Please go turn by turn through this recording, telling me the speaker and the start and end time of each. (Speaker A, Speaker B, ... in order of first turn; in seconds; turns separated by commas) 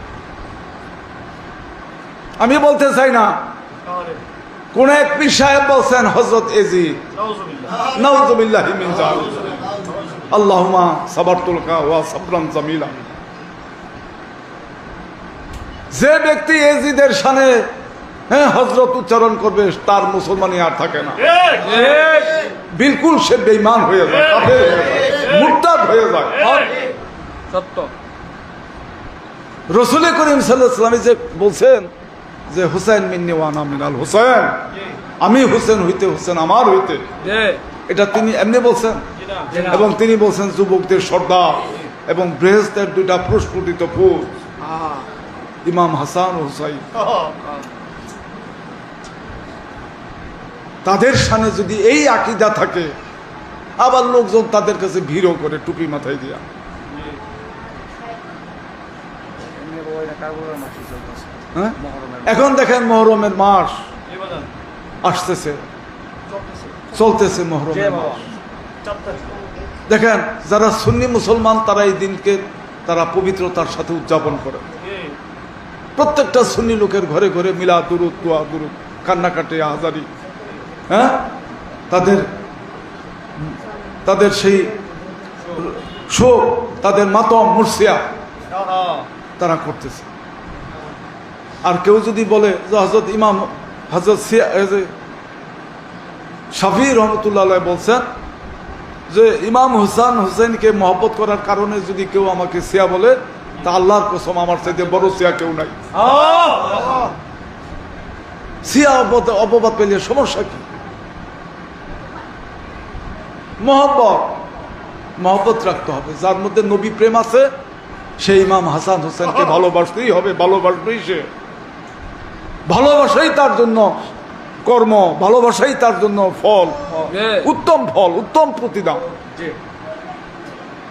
Speaker A: 2.4-3.4, Speaker A: 4.7-7.0, Speaker A: 7.8-9.5, Speaker A: 10.3-13.0, Speaker A: 15.9-17.7, Speaker A: 18.3-21.3, Speaker B: 21.6-22.5, Speaker A: 22.5-26.6, Speaker B: 26.4-26.8, Speaker B: 27.5-27.9, Speaker A: 29.7-31.9, Speaker A: 32.5-34.6, Speaker A: 35.2-37.1, Speaker B: 37.2-37.6, Speaker A: 37.9-44.3, Speaker B: 39.4-39.8, Speaker B: 44.6-45.1, Speaker A: 45.6-46.9, Speaker A: 50.9-52.9, Speaker A: 53.8-56.4, Speaker B: 59.5-62.2, Speaker A: 61.5-63.8, Speaker A: 65.0-65.6, Speaker A: 66.9-68.2, Speaker A: 69.9-74.7, Speaker A: 76.0-80.1, Speaker A: 80.9-81.3, Speaker A: 81.9-82.3, Speaker A: 84.0-84.7, Speaker A: 85.5-88.0, Speaker A: 89.4-90.1, Speaker A: 91.6-94.9, Speaker A: 96.5-98.0, Speaker A: 99.1-105.8, Speaker B: 105.9-107.0, Speaker A: 108.7-110.6, Speaker A: 113.6-114.4, Speaker A: 115.2-117.5, Speaker A: 118.2-121.3, Speaker A: 122.7-124.0, Speaker A: 124.7-129.1, Speaker B: 127.0-127.5